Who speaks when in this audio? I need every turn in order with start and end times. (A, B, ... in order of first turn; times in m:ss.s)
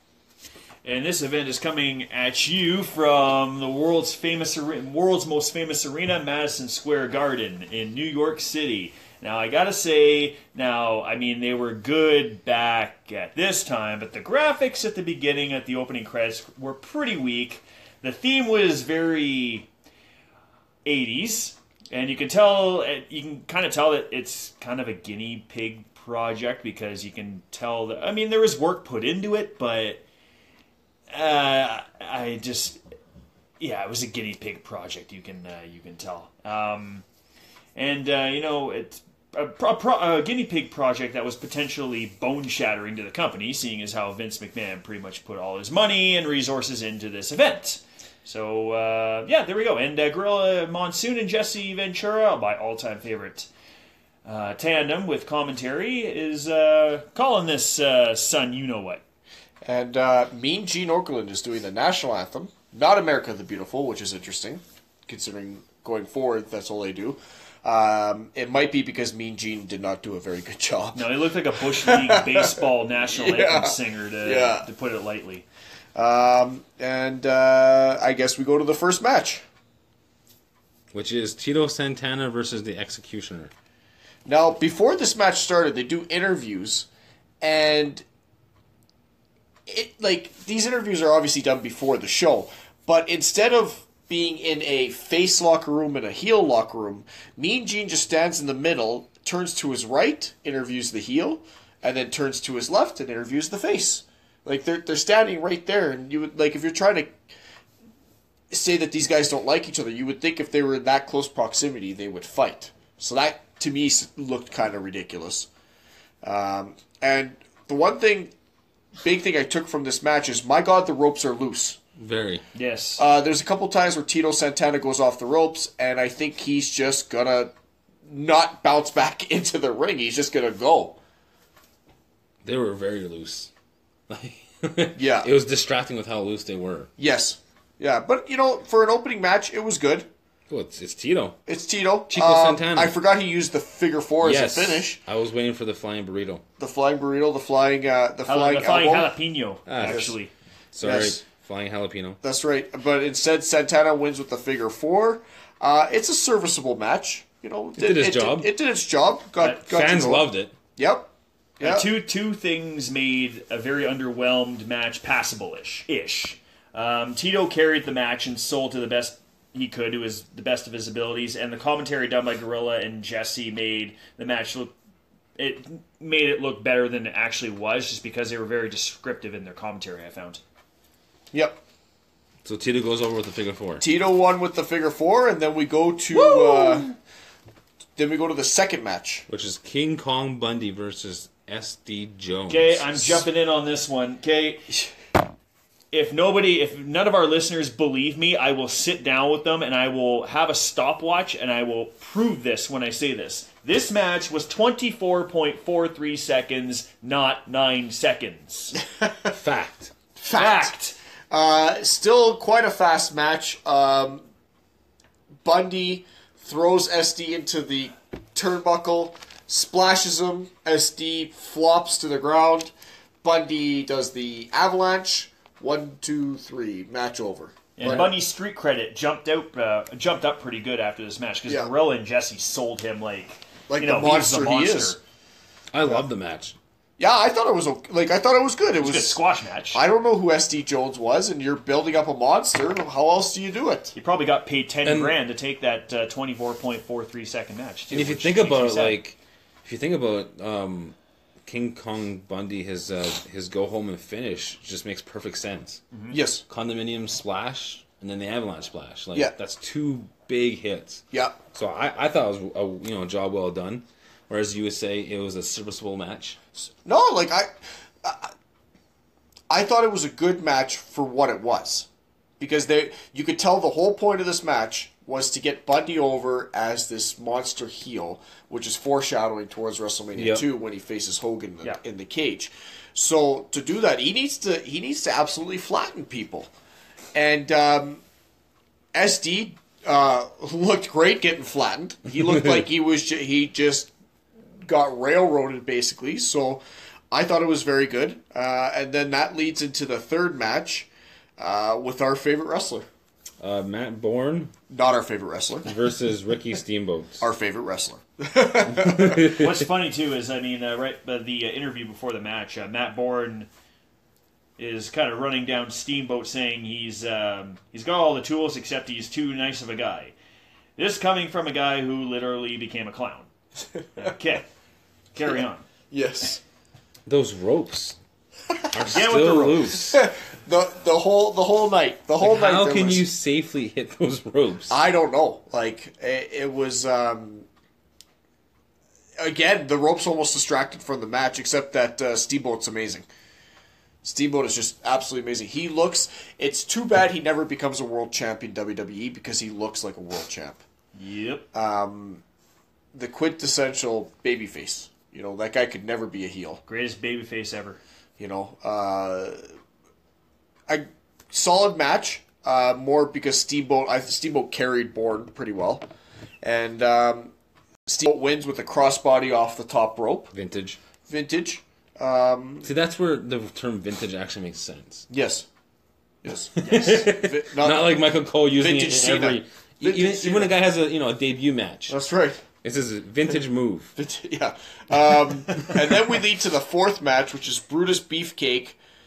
0:00.8-0:19.7 A
0:20.8-0:30.0 A
0:31.1-0:32.8 A
0:33.6-0:37.0 A
0:37.7-0:53.5 A
0:54.2-0:59.0 A
0:59.6-1:11.0 B
1:10.9-1:15.4 A
1:11.7-1:14.7 B
1:15.9-1:19.4 B
1:20.9-1:23.5 C
1:24.2-1:26.9 B
1:27.4-1:28.0 B
1:29.7-1:47.1 B
1:48.5-1:55.5 B
1:56.2-1:58.3 B
1:59.0-2:01.8 B
2:02.0-2:02.4 C
2:02.5-2:03.0 A
2:03.0-2:07.5 B
2:08.1-2:11.0 B
2:12.4-2:13.5 C
2:14.1-2:16.9 C
2:15.0-2:15.3 B
2:17.0-2:20.1 B
2:20.5-2:21.4 C
2:21.4-2:25.0 B
2:22.1-2:22.9 C
2:24.2-2:26.4 C
2:26.6-2:29.1 B
2:28.3-2:30.3 A
2:29.7-2:30.2 C
2:29.8-2:30.2 B
2:30.7-2:32.2 C
2:30.8-2:31.2 B
2:32.2-2:41.9 B
2:37.8-2:38.5 C
2:39.6-2:40.5 C
2:41.6-2:54.7 A
2:55.4-3:00.4 A
3:01.3-3:01.6 B
3:02.4-3:03.8 C
3:03.8-3:06.9 B
3:06.2-3:06.8 A
3:08.0-3:09.2 B
3:09.3-3:13.2 C
3:12.5-3:14.7 A
3:15.9-3:28.8 A
3:29.0-3:29.3 B
3:29.3-3:29.9 C
3:30.2-3:30.7 B
3:30.3-3:31.0 A
3:31.3-3:34.2 B
3:35.4-3:42.7 B
3:43.2-3:48.1 B
3:47.8-3:55.0 A
3:53.7-3:55.0 B
3:55.7-3:56.5 C
3:57.0-3:59.2 B
3:58.8-3:59.8 A
3:59.7-4:04.0 B
4:03.9-4:09.0 A
4:04.8-4:05.1 C
4:07.9-4:10.9 C
4:11.4-4:15.8 C
4:16.1-4:16.4 B
4:16.5-4:26.4 C
4:21.1-4:21.4 B
4:26.8-4:27.5 B
4:28.0-4:28.3 B
4:29.5-4:31.9 B
4:32.4-4:46.5 B
4:40.2-4:40.4 C
4:47.1-4:48.0 B
4:48.9-4:53.9 B
4:52.3-4:52.6 C
4:54.6-5:02.8 B
5:03.4-5:04.5 C
5:04.7-5:05.7 B
5:05.6-5:07.2 C
5:07.2-5:09.4 B
5:08.7-5:09.6 C
5:09.3-5:13.5 A
5:14.6-5:20.1 A
5:20.8-5:23.3 A
5:23.8-5:24.1 B
5:24.0-5:24.4 A
5:25.1-5:25.6 A
5:25.9-5:26.4 B
5:27.0-5:28.0 C
5:28.7-5:30.0 C
5:28.9-5:29.8 A
5:29.9-5:33.0 B
5:32.2-5:34.8 C
5:34.7-5:37.5 B
5:39.2-5:43.0 B
5:44.0-5:50.6 B
5:50.9-5:51.4 A
5:51.5-5:52.2 B
5:52.9-5:56.6 B
5:56.7-5:57.8 A
5:58.2-5:59.4 B
6:00.7-6:05.8 B
6:06.4-6:07.3 B
6:07.8-6:10.3 B
6:10.3-6:10.8 C
6:11.1-6:12.7 B
6:12.6-6:15.0 C
6:15.1-6:15.4 B
6:16.2-6:17.9 B
6:16.6-6:21.9 C
6:16.6-6:17.1 A
6:18.6-6:20.5 B
6:21.9-6:22.4 B
6:22.6-6:23.9 C
6:24.0-6:28.8 B
6:25.5-6:25.8 A